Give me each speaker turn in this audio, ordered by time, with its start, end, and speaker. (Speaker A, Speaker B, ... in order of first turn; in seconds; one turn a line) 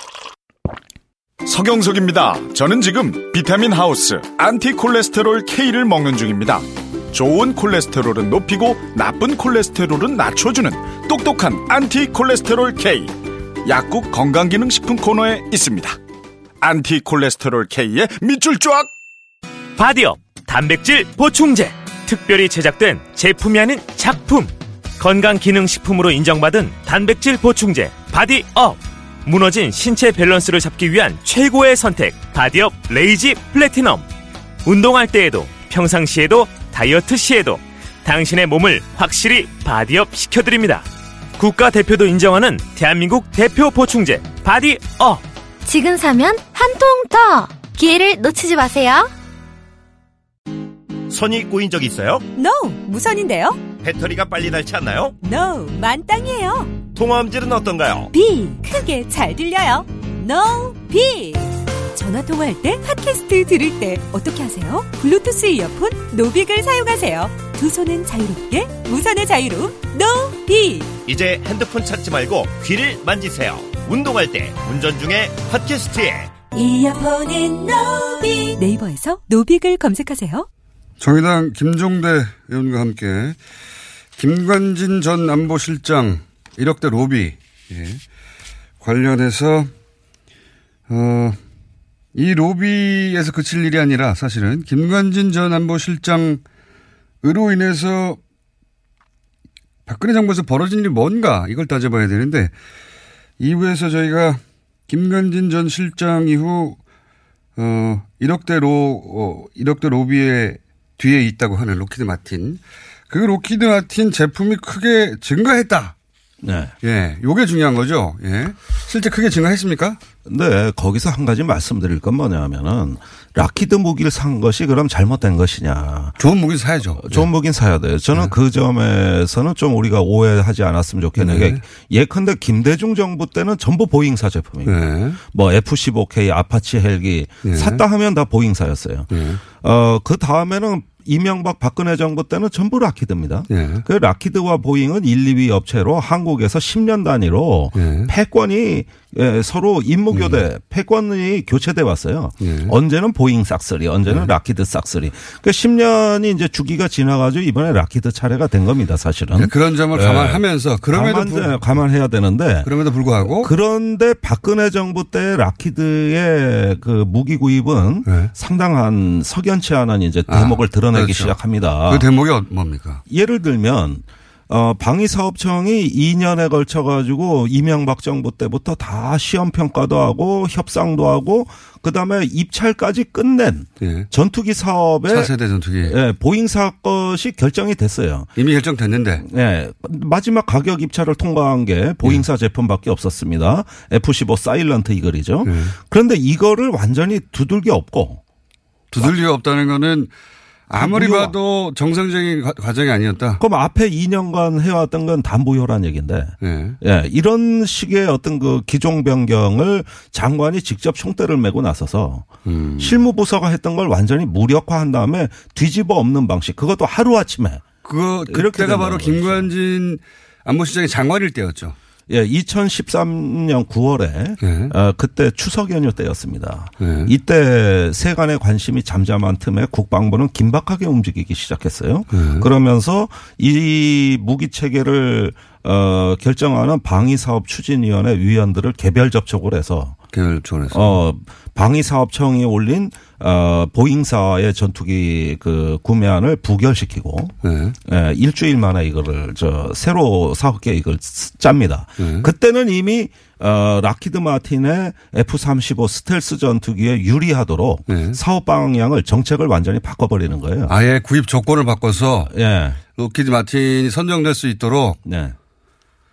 Speaker A: 1.4-16.0
Speaker A: 16.6-18.9
Speaker B: 19.8-34.0
Speaker B: 34.6-40.8
Speaker B: 41.4-45.2
Speaker C: 45.6-49.1
Speaker D: 51.1-52.2
Speaker E: 52.3-53.6
Speaker D: 53.8-55.1
Speaker E: 55.2-56.8
Speaker D: 56.9-58.1
Speaker E: 58.1-70.9
Speaker D: 71.0-76.3
Speaker E: 76.5-80.5
Speaker F: 81.0-83.4
Speaker F: 84.2-88.0
Speaker F: 88.8-89.7
Speaker F: 90.9-91.4
Speaker F: 92.1-96.4
Speaker F: 97.2-98.2
Speaker F: 99.8-102.5
Speaker F: 103.4-106.8
Speaker F: 107.5-115.9
Speaker G: 116.4-116.7
Speaker F: 116.8-120.0
Speaker G: 120.2-126.1
Speaker F: 126.2-127.3
Speaker G: 126.9-162.7
Speaker F: 131.2-131.6
Speaker F: 134.6-135.2
Speaker F: 137.4-137.8
Speaker F: 139.1-139.4
Speaker F: 143.5-143.8
Speaker F: 147.7-148.1
Speaker F: 150.1-150.4
Speaker F: 152.4-152.7
Speaker F: 159.3-161.8
Speaker F: 162.6-163.5
Speaker G: 163.2-172.1
Speaker F: 168.0-168.3
Speaker F: 170.3-173.0
Speaker G: 173.1-185.3
Speaker F: 183.8-184.1
Speaker F: 185.1-185.9
Speaker G: 185.8-188.3
Speaker F: 188.3-189.2
Speaker G: 189.2-198.2
Speaker F: 195.4-195.7
Speaker F: 198.9-200.1
Speaker F: 200.7-203.4
Speaker G: 200.7-201.3
Speaker G: 203.4-217.6
Speaker F: 206.4-206.8
Speaker F: 212.4-213.0
Speaker F: 217.8-221.8
Speaker G: 218.3-219.5
Speaker G: 222.1-240.0
Speaker F: 224.4-224.7
Speaker F: 226.8-227.1
Speaker F: 232.1-232.5
Speaker F: 240.1-241.0
Speaker G: 240.7-247.3
Speaker F: 247.4-247.8
Speaker G: 247.8-260.7
Speaker F: 252.0-252.3
Speaker F: 257.9-258.2
Speaker F: 260.7-262.3
Speaker G: 262.3-262.8
Speaker F: 262.9-265.0
Speaker G: 265.0-265.3